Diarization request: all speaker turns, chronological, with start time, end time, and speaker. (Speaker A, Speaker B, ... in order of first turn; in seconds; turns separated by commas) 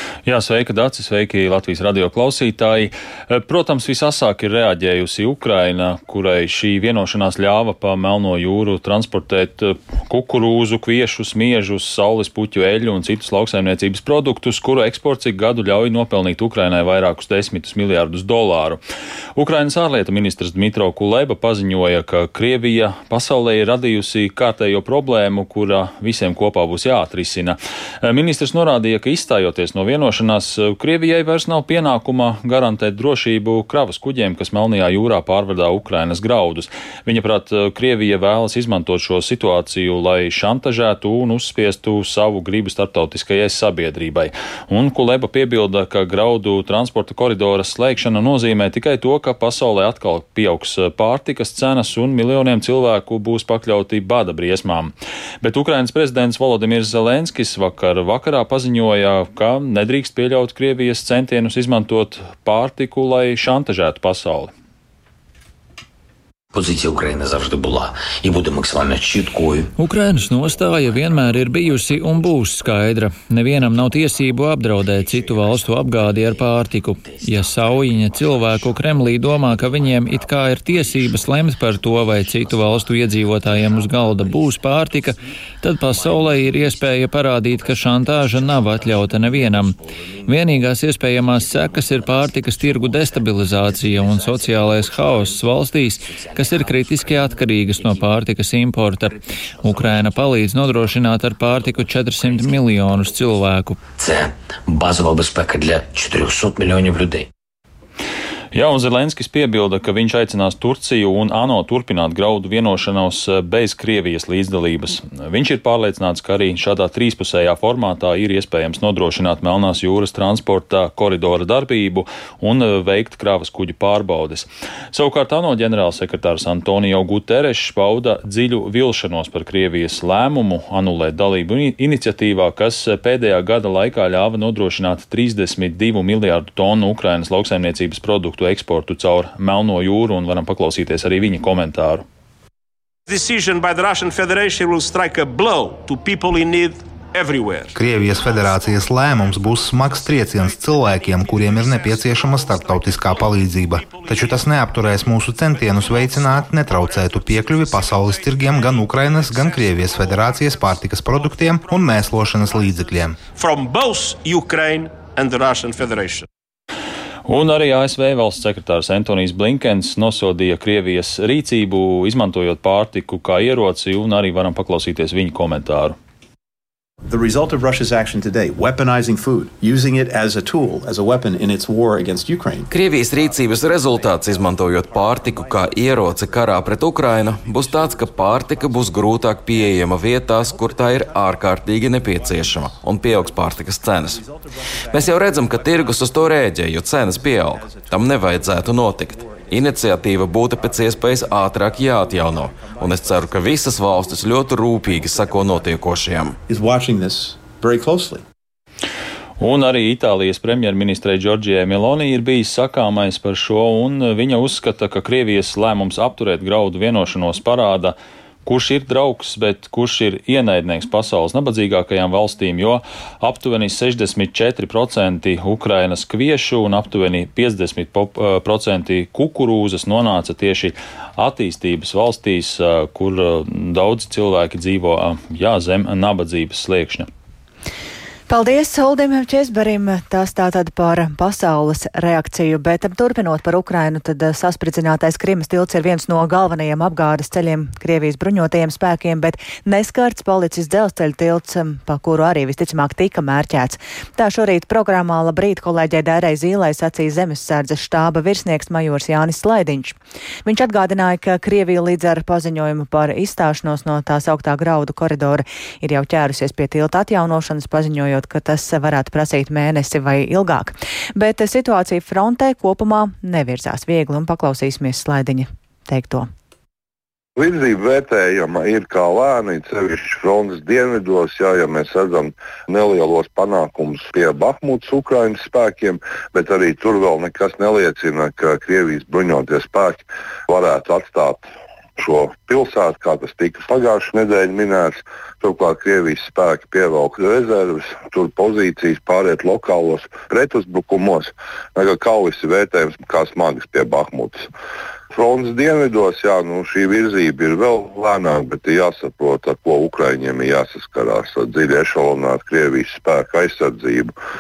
Speaker A: 0.2-18.8, Speaker A: 19.4-64.5, Speaker B: 66.5-69.7, Speaker C: 69.8-103.8, Speaker B: 104.0-107.3, Speaker A: 108.5-142.1, Speaker D: 143.1-147.8, Speaker E: 147.8-163.2, Speaker D: 149.7-155.0, Speaker D: 155.5-160.6, Speaker D: 163.3-166.3, Speaker A: 167.2-176.0, Speaker F: 177.1-182.7, Speaker G: 182.7-194.2, Speaker F: 185.0-186.6, Speaker F: 187.4-188.8, Speaker F: 190.5-190.9, Speaker F: 192.3-192.8, Speaker F: 194.2-196.2, Speaker G: 194.9-206.4, Speaker F: 197.2-198.2, Speaker F: 199.0-199.8, Speaker F: 200.6-203.4, Speaker F: 205.0-205.7, Speaker F: 206.5-208.2, Speaker A: 209.4-237.1, Speaker H: 238.3-276.3, Speaker I: 277.4-291.4, Speaker I: 292.0-304.5, Speaker I: 305.1-314.1